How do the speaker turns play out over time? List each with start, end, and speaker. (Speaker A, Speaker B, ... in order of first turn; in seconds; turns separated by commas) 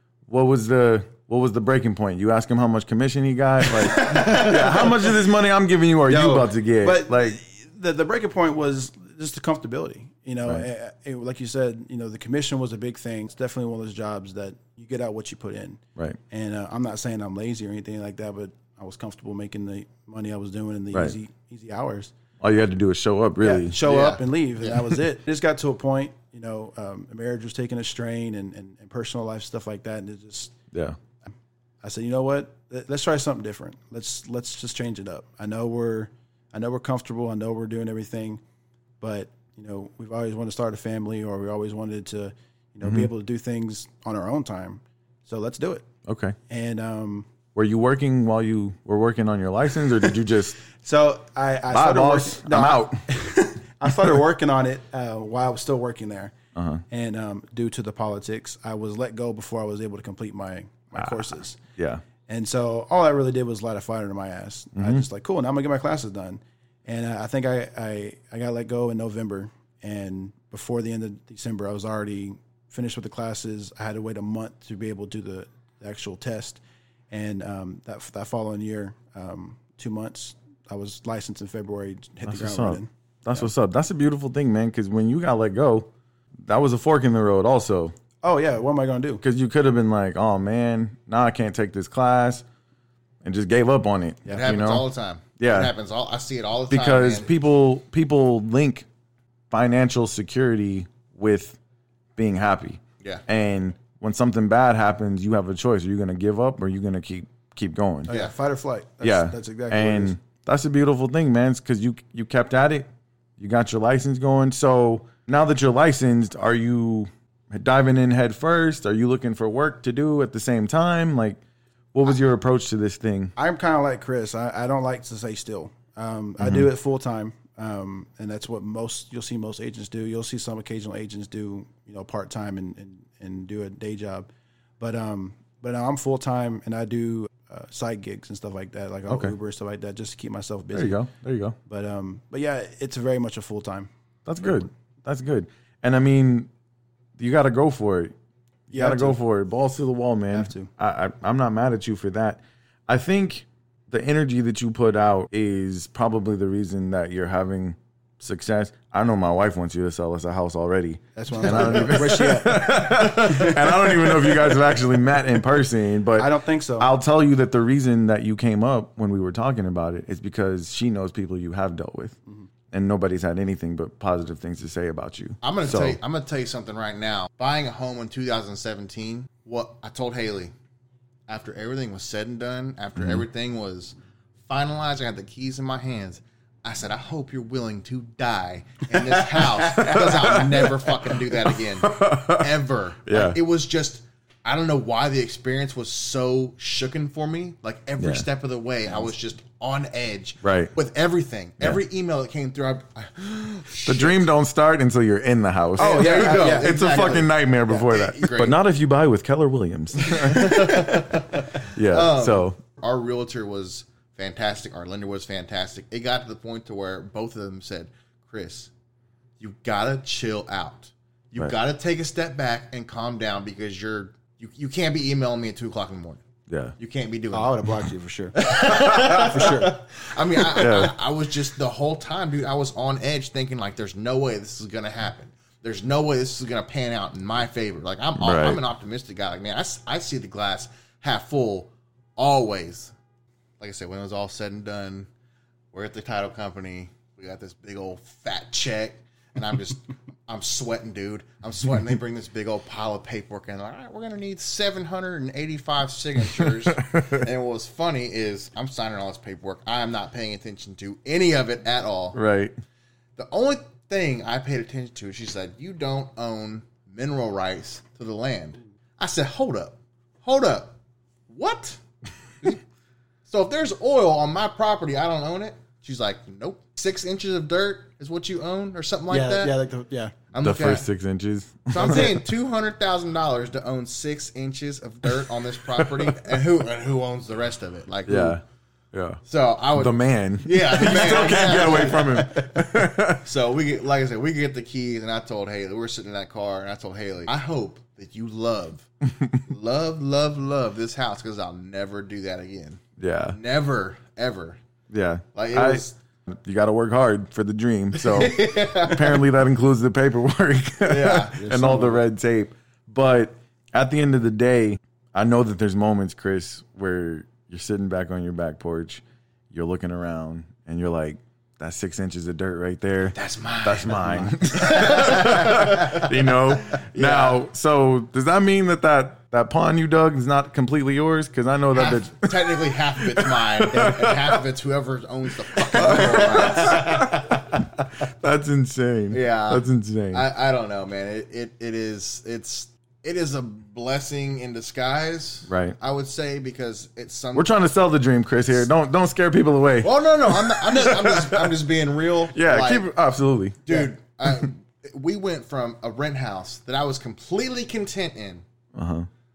Speaker A: 0.3-7.4, Speaker B: 3.7-5.2, Speaker B: 6.1-22.1, Speaker A: 22.4-23.8, Speaker B: 23.4-30.5, Speaker C: 23.8-24.8, Speaker A: 30.7-31.0, Speaker B: 31.8-38.4, Speaker B: 39.0-45.9, Speaker A: 42.8-43.1, Speaker A: 46.0-46.4, Speaker B: 46.5-47.3, Speaker A: 47.5-50.6, Speaker B: 50.8-56.3, Speaker A: 51.7-53.1, Speaker A: 56.5-56.8, Speaker B: 56.9-61.6, Speaker A: 61.0-62.0, Speaker B: 62.3-76.6, Speaker A: 64.8-65.0, Speaker B: 77.1-83.5, Speaker A: 82.2-85.9, Speaker A: 86.4-87.9, Speaker B: 88.2-89.2, Speaker A: 89.2-92.4, Speaker A: 93.2-94.9, Speaker C: 94.3-97.3, Speaker A: 95.4-95.7, Speaker A: 96.7-98.9, Speaker A: 99.5-101.6, Speaker A: 102.2-108.1, Speaker B: 108.0-110.1, Speaker A: 109.0-121.4, Speaker A: 121.9-123.3, Speaker B: 123.4-134.3, Speaker A: 126.4-126.7, Speaker B: 134.8-141.1, Speaker A: 139.1-139.3, Speaker A: 140.7-141.6, Speaker B: 141.7-143.9, Speaker A: 144.2-146.5, Speaker B: 144.4-144.7, Speaker A: 147.2-148.1, Speaker B: 148.7-149.2, Speaker A: 148.7-172.2, Speaker B: 150.3-150.7, Speaker B: 161.2-164.6, Speaker B: 166.2-166.9, Speaker A: 172.7-176.0, Speaker C: 175.4-180.5, Speaker C: 181.3-183.9, Speaker A: 183.0-183.2, Speaker C: 184.5-204.3, Speaker A: 189.6-192.5, Speaker A: 193.1-193.4, Speaker A: 198.0-198.2, Speaker A: 200.4-200.7, Speaker A: 203.8-212.6, Speaker B: 205.8-207.2, Speaker C: 205.8-208.6, Speaker C: 210.0-218.7, Speaker C: 219.4-226.2, Speaker A: 226.5-226.7, Speaker C: 226.8-227.8, Speaker B: 227.3-229.8, Speaker C: 228.3-242.9, Speaker A: 230.5-230.9, Speaker A: 238.2-238.6, Speaker C: 243.6-245.1, Speaker C: 245.7-262.2, Speaker A: 256.4-257.1, Speaker A: 262.1-262.6, Speaker C: 263.2-270.7, Speaker C: 271.3-271.8, Speaker C: 273.3-279.5, Speaker B: 279.1-280.1, Speaker C: 280.3-280.9, Speaker A: 280.4-282.2, Speaker C: 281.7-288.4, Speaker A: 285.8-286.1, Speaker A: 288.1-289.2, Speaker C: 289.3-292.5, Speaker A: 289.7-293.2, Speaker C: 293.2-298.9, Speaker A: 299.1-299.4, Speaker C: 299.4-302.8, Speaker A: 303.0-303.4, Speaker C: 303.3-304.6, Speaker A: 304.9-334.4, Speaker C: 305.4-305.9, Speaker C: 307.9-309.2, Speaker C: 310.9-311.4, Speaker B: 311.4-312.0, Speaker C: 323.1-326.2, Speaker C: 326.7-327.4, Speaker C: 331.7-337.6, Speaker A: 335.5-340.2, Speaker C: 339.1-347.6, Speaker A: 345.5-345.8, Speaker A: 347.3-351.5, Speaker C: 349.8-352.9, Speaker A: 352.3-353.6, Speaker C: 353.6-358.4, Speaker A: 358.7-359.1